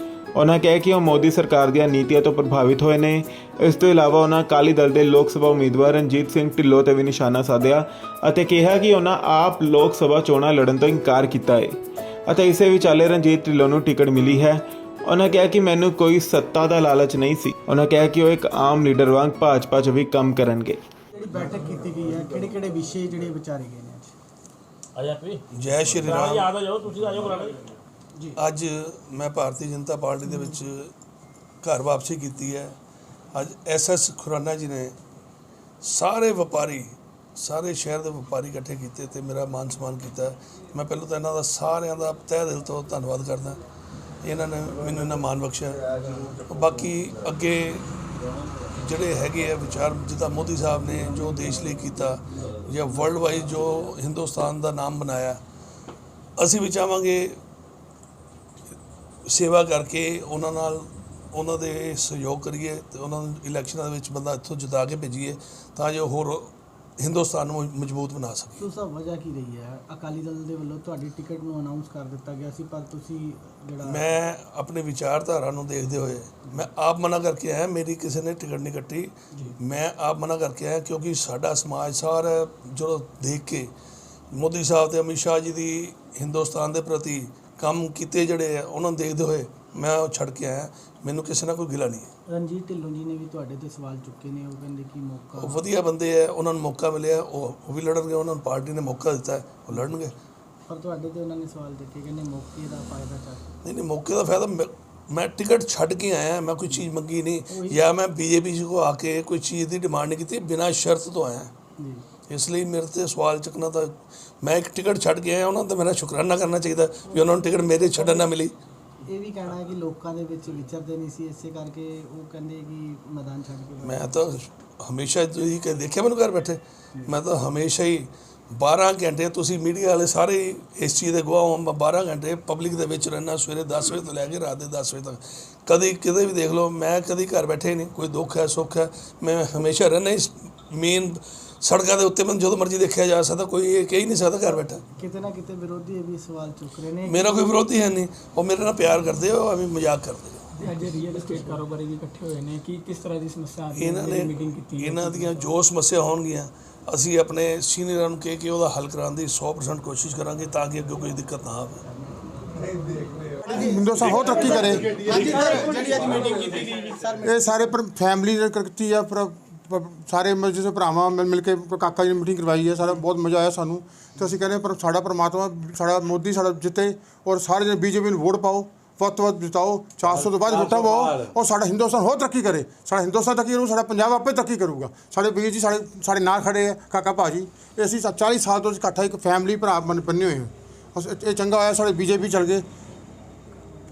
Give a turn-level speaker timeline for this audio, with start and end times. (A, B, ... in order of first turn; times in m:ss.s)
0:00.3-0:11.8 A
0:12.3-0:20.8 A
0:21.1-0:24.1 B
0:25.0-0:25.4 C
0:25.5-0:26.5 D
0:26.0-0:27.6 C
0:28.4-0:30.9 D
0:30.3-0:30.6 B
0:31.6-0:32.8 D
0:33.3-0:35.0 D
0:35.8-0:43.6 D
0:44.2-0:48.0 D
0:48.7-0:55.4 D
0:56.4-0:57.4 D
0:59.2-1:08.6 D
1:08.6-1:14.2 B
1:13.8-1:23.7 D
1:24.3-1:32.1 D
1:32.3-1:35.7 B
1:35.4-1:40.1 D
1:40.7-1:43.4 B
1:43.6-1:51.5 D
1:47.5-1:47.8 B
1:51.8-1:52.0 B
1:52.3-1:58.5 D
1:57.1-1:58.2 B
1:59.0-2:04.2 B
2:03.8-2:24.8 D
2:24.9-2:27.5 B
2:27.0-2:30.5 D
2:30.6-2:35.5 E
2:30.9-2:31.6 B
2:33.7-2:41.9 D
2:42.3-2:43.7 B
2:43.4-2:45.9 F
2:44.3-2:47.3 B
2:47.2-3:12.6 F